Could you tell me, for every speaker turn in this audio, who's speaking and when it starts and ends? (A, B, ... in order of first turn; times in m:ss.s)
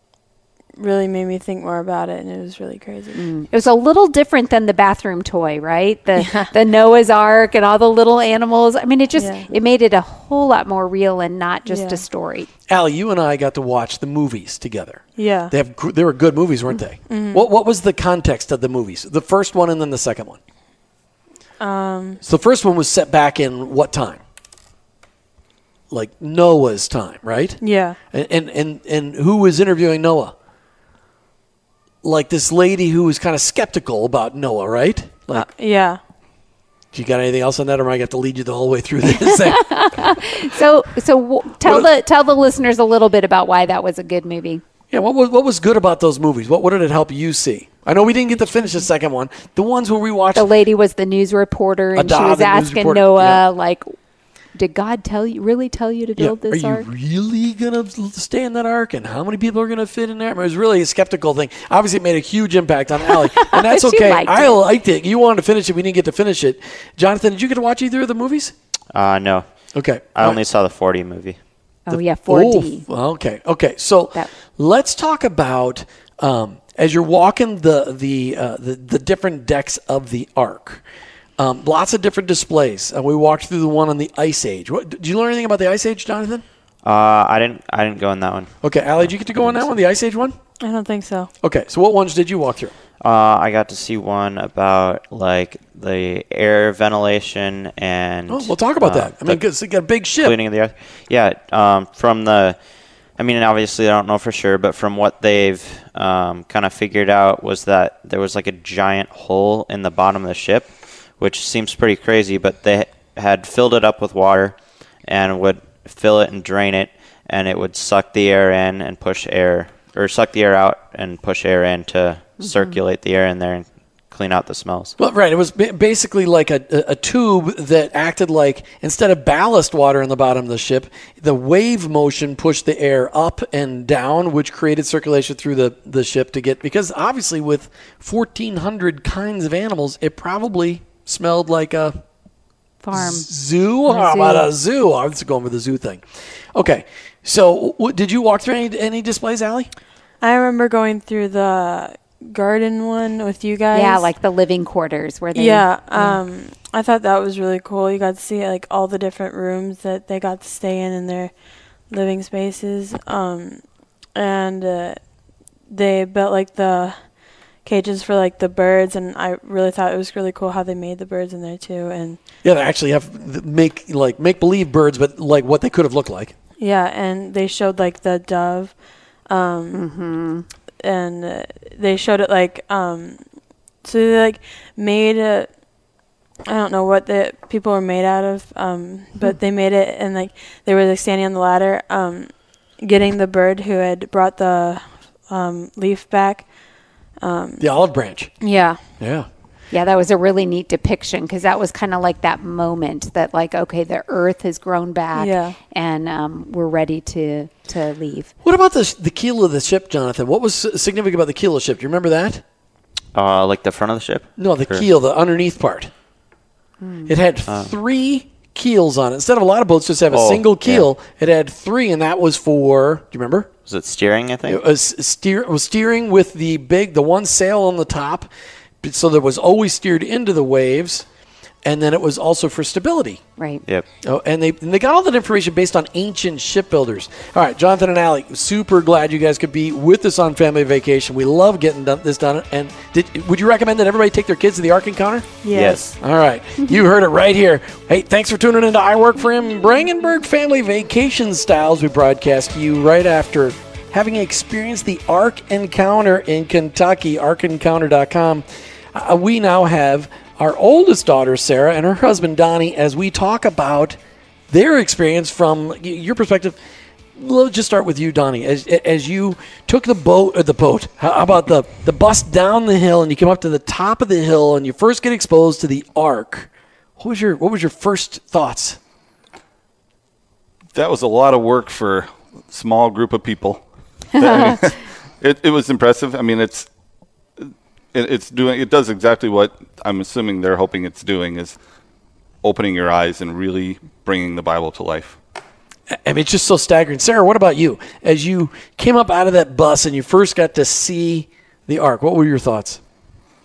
0:00.8-0:03.2 A
0:03.2-0:12.5 B
0:06.2-0:06.5 A
0:09.2-0:09.5 A
0:11.7-0:12.0 A
0:12.7-0:20.4 C
0:15.2-0:15.5 A
0:17.1-0:17.5 A
0:21.6-0:22.2 A
0:22.2-0:24.2 C
0:25.9-0:30.4 C
0:27.6-0:28.0 A
0:32.0-0:35.5 C
0:35.3-0:36.0 A
0:36.9-0:39.7 C
0:39.3-0:44.6 B
0:41.6-0:41.9 C
0:44.9-0:50.5 C
0:50.3-0:53.9 B
0:52.0-0:53.4 C
0:54.6-0:56.9 B
0:56.2-1:08.5 C
1:03.1-1:04.6 B
1:08.9-1:11.4 D
1:09.7-1:10.4 C
1:11.9-1:12.9 B
1:11.9-1:20.8 C
1:21.4-1:26.4 C
1:26.8-1:29.7 D
1:28.6-1:30.4 C
1:30.6-1:31.3 A
1:31.4-1:32.7 C
1:33.0-1:39.4 D
1:38.3-1:40.4 C
1:40.2-1:42.6 D
1:43.1-2:04.9 D
2:02.4-2:02.8 B
2:05.0-2:22.0 C
2:22.8-2:23.3 B
2:22.9-2:29.7 C
2:23.9-2:24.5 B
2:30.2-2:34.1 A
2:33.7-2:36.2 B
2:35.3-2:41.3 A
2:41.9-2:45.1 A
2:45.7-2:52.2 A
2:52.4-2:56.3 C
2:56.6-2:59.8 A
2:59.7-3:00.5 B
3:00.8-3:03.3 A
3:03.8-3:05.6 A
3:06.5-3:16.6 A
3:17.2-3:17.7 A
3:17.6-3:18.3 C
3:18.4-3:18.8 A
3:19.0-3:19.3 C
3:19.7-3:28.3 B
3:25.2-3:25.6 A
3:28.4-3:32.4 C
3:33.2-3:34.8 D
3:34.4-3:35.9 C
3:36.8-3:37.1 B
3:37.1-3:43.5 C
3:37.5-3:37.7 D
3:40.1-3:40.9 D
3:43.7-3:44.6 D
3:44.5-3:48.3 C
3:48.8-3:51.1 C
3:51.6-3:53.2 C
3:53.4-3:53.6 B
3:54.0-4:24.0 C
4:05.4-4:05.9 A
4:05.5-4:06.0 D
4:24.5-4:26.6 C
4:27.2-4:38.8 C
4:40.8-4:43.6 E
4:44.2-4:46.7 E
4:44.2-4:44.6 B
4:47.4-4:51.6 E
4:52.4-4:55.2 E
4:55.9-5:02.8 C